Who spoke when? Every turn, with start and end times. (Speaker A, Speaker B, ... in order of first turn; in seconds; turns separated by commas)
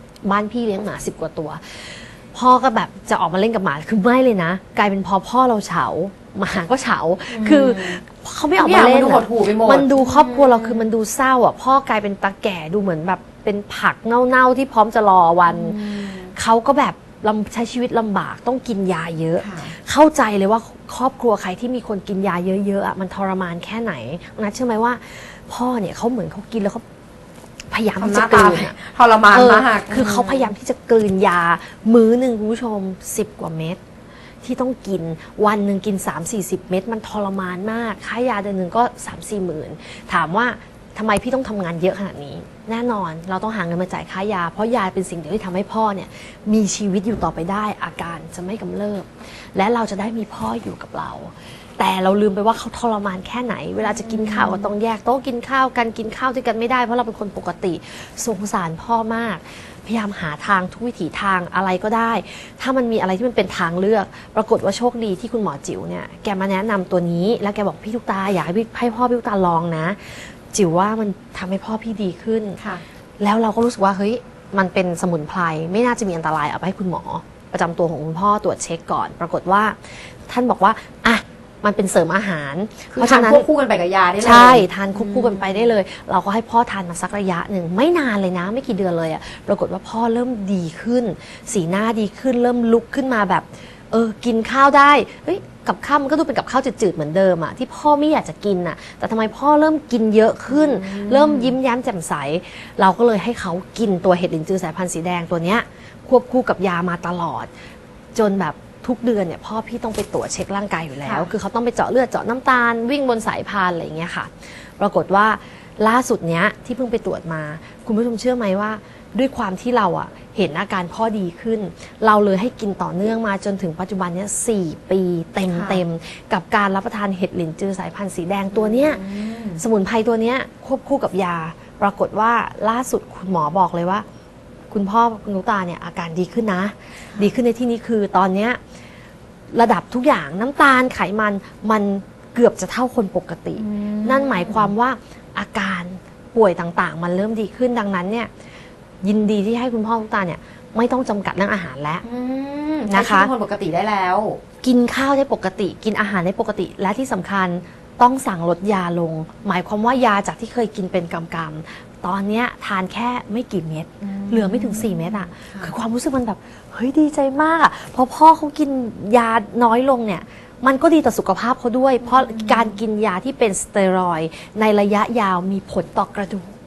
Speaker A: 0.2-26.8, Speaker B: 7.3-8.0, Speaker B: 8.6-10.9, Speaker B: 15.4-16.3, Speaker B: 19.4-19.7, Speaker A: 27.7-28.7, Speaker B: 28.0-30.5, Speaker A: 29.3-33.8, Speaker A: 34.4-72.6, Speaker B: 53.8-54.7, Speaker A: 73.2-83.5, Speaker B: 82.9-85.7, Speaker A: 84.2-107.5, Speaker B: 100.5-101.6, Speaker A: 108.1-134.0, Speaker B: 111.0-111.3, Speaker B: 125.4-125.8, Speaker B: 128.5-129.6, Speaker A: 134.7-138.6, Speaker A: 139.5-148.3, Speaker B: 143.5-144.7, Speaker A: 149.0-152.0, Speaker B: 152.0-154.4, Speaker A: 152.9-153.3, Speaker A: 154.6-176.5, Speaker B: 164.0-165.7, Speaker B: 172.0-172.8